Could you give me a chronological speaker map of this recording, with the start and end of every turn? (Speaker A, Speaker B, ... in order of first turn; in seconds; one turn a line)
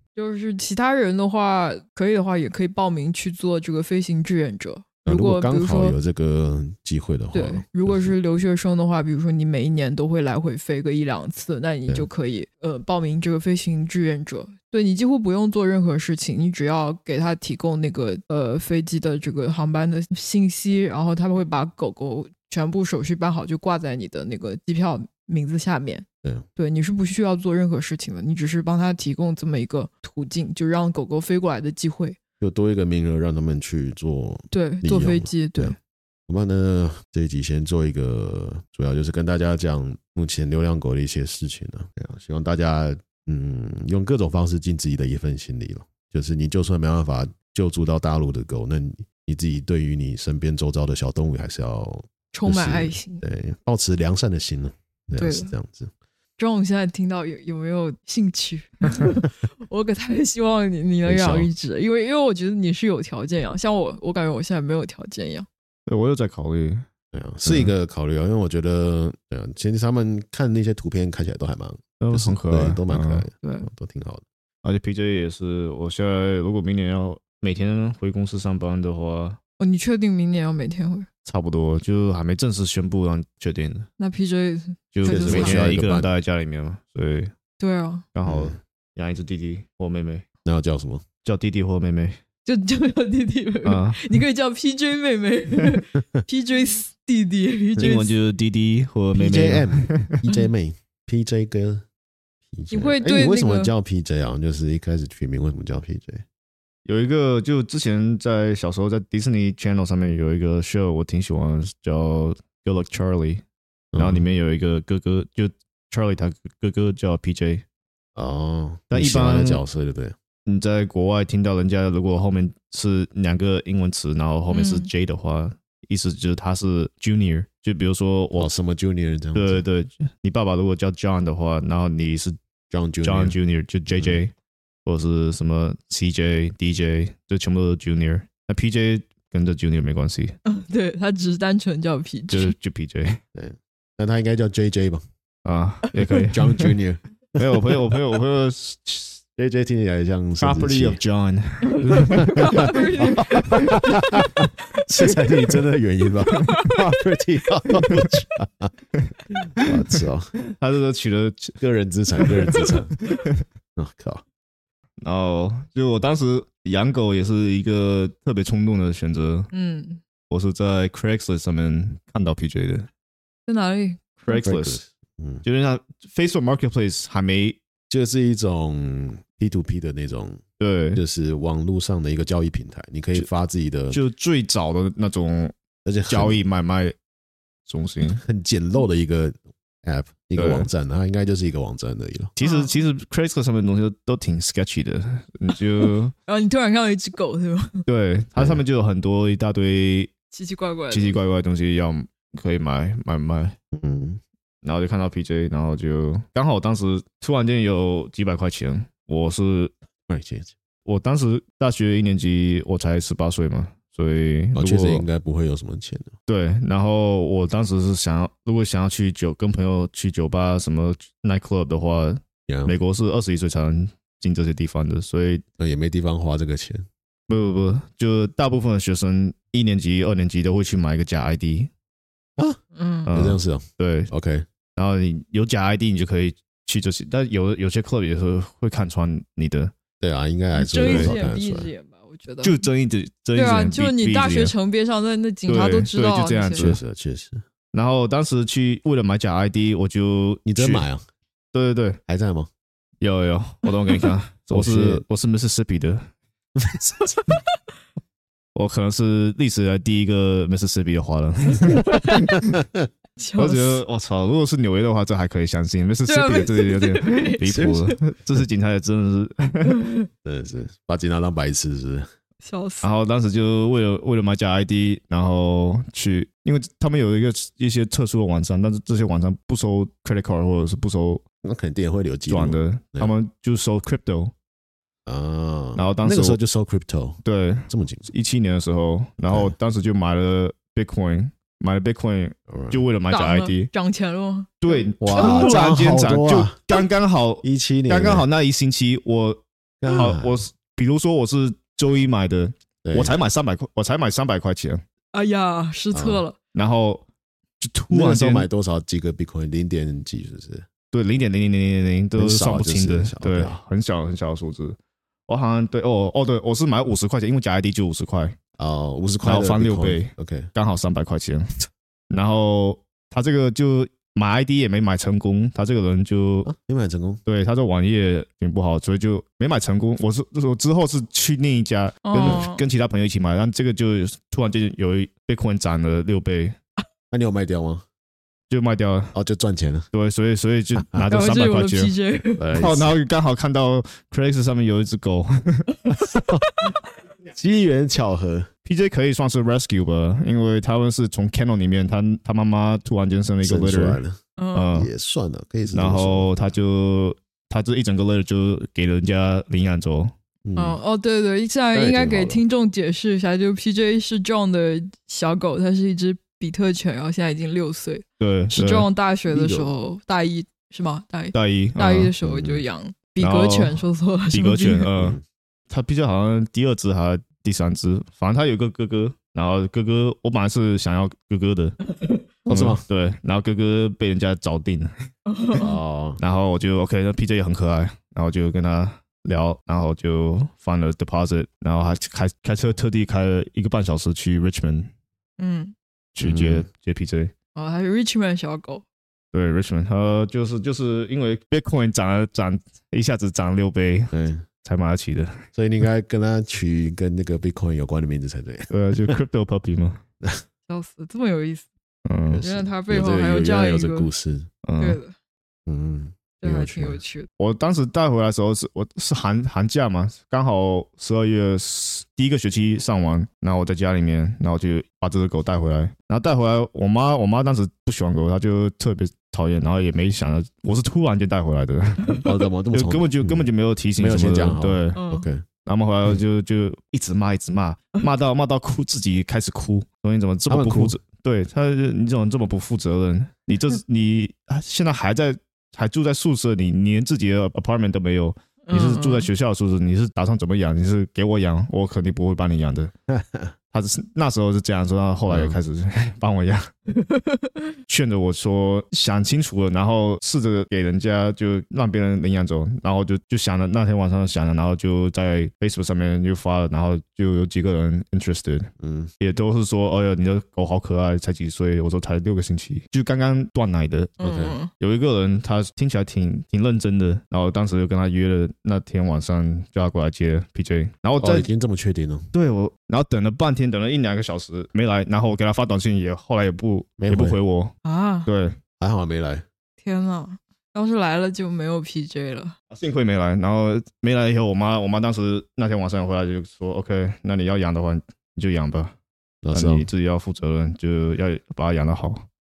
Speaker A: 0.1-6.0
Speaker B: 5.0-8.1
Speaker A: 7.3-26.0
Speaker A: 26.6-32.2
Speaker B: 32.4-35.8
Speaker A: 34.5-35.8
Speaker B: 36.3-55.9
Speaker A: 52.3-53.2
Speaker A: 55.1-55.5
Speaker A: 56.4-65.5
Speaker B: 61.0-61.5
Speaker C: 65.9-66.9
Speaker B: 67.1-74.2
Speaker C: 67.4-67.7
Speaker C: 72.0-73.2
Speaker A: 73.4-73.7
Speaker C: 74.6-79.4
Speaker A: 79.6-81.1
Speaker C: 81.2-83.9
Speaker A: 84.0-85.7
Speaker C: 84.9-87.3
Speaker B: 85.0-86.1
Speaker A: 87.6-88.0
Speaker C: 88.1-90.2
Speaker B: 88.2-88.5
Speaker B: 90.4-91.0
Speaker C: 91.2-92.2
Speaker A: 92.4-98.2
Speaker C: 93.6-94.1
Speaker C: 97.8-100.2
Speaker B: 99.1-101.8
Speaker B: 102.5-106.2
Speaker A: 102.7-103.7
Speaker C: 106.8-113.4
Speaker B: 113.9-114.3
Speaker C: 114.0-117.6
Speaker B: 118.2-120.1
Speaker C: 118.9-119.6
Speaker C: 120.5-128.5
Speaker A: 124.5-124.9
Speaker B: 128.3-129.6
Speaker C: 129.3-132.4
Speaker B: 132.7-133.4
Speaker C: 133.0-134.3
Speaker B: 133.9-134.2
Speaker C: 134.8-140.3
Speaker A: 140.4-142.5
Speaker C: 142.3-143.2
Speaker B: 143.3-145.0
Speaker C: 145.4-146.8
Speaker B: 146.3-147.0
Speaker C: 147.3-149.2
Speaker B: 149.4-151.0
Speaker C: 150.4-153.8
Speaker A: 152.0-153.7
Speaker B: 152.2-158.7
Speaker C: 155.1-155.5
Speaker A: 156.3-156.8
Speaker B: 159.3-160.3
Speaker C: 159.6-159.8
Speaker C: 160.5-161.6
Speaker B: 161.6-163.0
Speaker C: 162.2-163.2
Speaker B: 163.8-164.2
Speaker C: 165.0-169.5
Speaker A: 169.5-170.0
Speaker C: 170.3-172.9
Speaker A: 173.5-174.5
Speaker C: 174.3-174.8
Speaker B: 174.4-175.4
Speaker C: 175.4-177.6
Speaker B: 177.9-180.4
Speaker C: 180.6-181.0
Speaker B: 180.9-184.0
Speaker C: 183.9-185.5
Speaker B: 185.8-186.4
Speaker C: 186.1-186.9
Speaker C: 187.7-188.2
Speaker B: 188.2-192.3
Speaker C: 190.3-190.7
Speaker C: 192.3-196.1
Speaker A: 192.4-192.8
Speaker A: 196.2-197.8
Speaker C: 197.9-200.1
Speaker B: 198.3-198.6
Speaker A: 200.3-201.2
Speaker C: 200.9-203.6
Speaker B: 203.7-204.2
Speaker C: 204.6-209.7
Speaker B: 210.1-210.5
Speaker C: 210.8-215.0
Speaker B: 214.5-216.1
Speaker C: 216.3-225.4
Speaker B: 222.5-222.7
Speaker B: 225.6-226.8
Speaker C: 227.3-231.7
Speaker A: 232.7-233.1
Speaker C: 233.1-234.1
Speaker B: 233.1-234.5
Speaker C: 234.8-239.7
Speaker B: 240.0-241.7
Speaker A: 240.5-242.6
Speaker C: 240.8-241.2
Speaker C: 242.4-244.5
Speaker A: 243.3-246.8
Speaker C: 245.5-246.8
Speaker B: 246.6-247.4
Speaker C: 247.7-250.8
Speaker B: 250.4-251.0
Speaker C: 251.5-252.0
Speaker B: 252.1-252.5
Speaker C: 253.0-256.0
Speaker B: 254.5-255.0
Speaker B: 256.6-257.2
Speaker C: 258.5-262.4
Speaker A: 261.9-262.3
Speaker A: 263.2-263.8
Speaker C: 263.4-269.8
Speaker A: 266.1-267.9
Speaker B: 267.4-267.9
Speaker A: 269.7-270.1
Speaker B: 270.2-272.1
Speaker A: 272.4-272.9
Speaker C: 272.8-281.2
Speaker B: 281.4-283.1
Speaker C: 282.3-284.3
Speaker B: 285.1-288.1
Speaker C: 285.7-286.4
Speaker C: 287.2-293.7
Speaker B: 289.2-289.5
Speaker B: 292.5-292.8
Speaker A: 293.1-295.6
Speaker C: 294.6-304.8
Speaker B: 295.0-296.6
Speaker B: 297.4-298.2
Speaker B: 299.8-300.4
Speaker B: 302.8-303.2
Speaker A: 305.1-306.3
Speaker B: 305.9-306.2
Speaker C: 306.5-307.0
Speaker C: 307.6-308.5
Speaker B: 307.9-310.6
Speaker C: 310.9-314.8
Speaker B: 312.2-313.6
Speaker C: 315.3-318.4
Speaker B: 318.6-320.5
Speaker C: 319.2-321.5
Speaker C: 322.1-326.5
Speaker B: 326.4-327.2
Speaker C: 327.2-336.6
Speaker A: 332.0-332.6
Speaker B: 337.1-337.8
Speaker C: 338.5-339.1
Speaker B: 339.1-339.9
Speaker C: 339.9-341.9
Speaker B: 340.8-341.1
Speaker A: 341.1-342.7
Speaker B: 342.4-342.9
Speaker C: 342.6-345.7
Speaker B: 345.9-346.4
Speaker A: 346.5-346.7
Speaker B: 347.3-348.5
Speaker C: 348.6-354.0
Speaker B: 353.4-354.2
Speaker A: 354.4-354.8
Speaker C: 354.5-354.9
Speaker B: 354.7-356.3
Speaker C: 355.7-360.1
Speaker B: 360.4-360.8
Speaker A: 360.6-374.9
Speaker B: 361.7-362.4
Speaker C: 368.2-368.9
Speaker B: 369.3-369.7
Speaker C: 371.3-372.1
Speaker B: 372.2-372.6
Speaker C: 373.2-375.2
Speaker B: 375.0-375.2
Speaker C: 375.7-381.8
Speaker A: 381.9-382.2
Speaker B: 382.5-382.8
Speaker C: 382.5-385.1
Speaker A: 385.3-385.7
Speaker B: 385.5-386.2
Speaker C: 386.2-394.9
Speaker A: 395.4-395.7
Speaker C: 396.1-397.3
Speaker B: 396.2-396.6
Speaker A: 397.5-398.8
Speaker C: 399.3-404.1
Speaker B: 404.1-404.4
Speaker C: 404.6-405.4
Speaker B: 405.5-409.1
Speaker C: 408.7-410.0
Speaker A: 410.7-411.7
Speaker C: 412.1-412.4
Speaker B: 412.3-414.5
Speaker A: 412.4-414.1
Speaker C: 414.6-415.0
Speaker A: 414.8-415.1
Speaker B: 415.6-417.0
Speaker A: 416.4-417.3
Speaker C: 417.4-435.0
Speaker B: 432.2-435.4
Speaker A: 434.9-435.2
Speaker C: 435.6-452.9
Speaker B: 440.5-440.9
Speaker A: 448.7-449.3
Speaker B: 453.1-453.5
Speaker C: 453.7-456.7
Speaker B: 455.3-455.6
Speaker A: 456.9-457.5
Speaker C: 457.9-474.2
Speaker B: 468.8-469.1
Speaker A: 474.2-474.7
Speaker B: 474.2-474.6
Speaker C: 474.7-481.5
Speaker B: 481.2-482.3
Speaker C: 482.3-487.7
Speaker B: 487.0-487.4
Speaker A: 487.8-488.3
Speaker C: 488.2-488.6
Speaker B: 488.8-489.4
Speaker A: 489.8-492.5
Speaker C: 492.7-498.9
Speaker B: 499.4-499.9
Speaker C: 499.5-502.2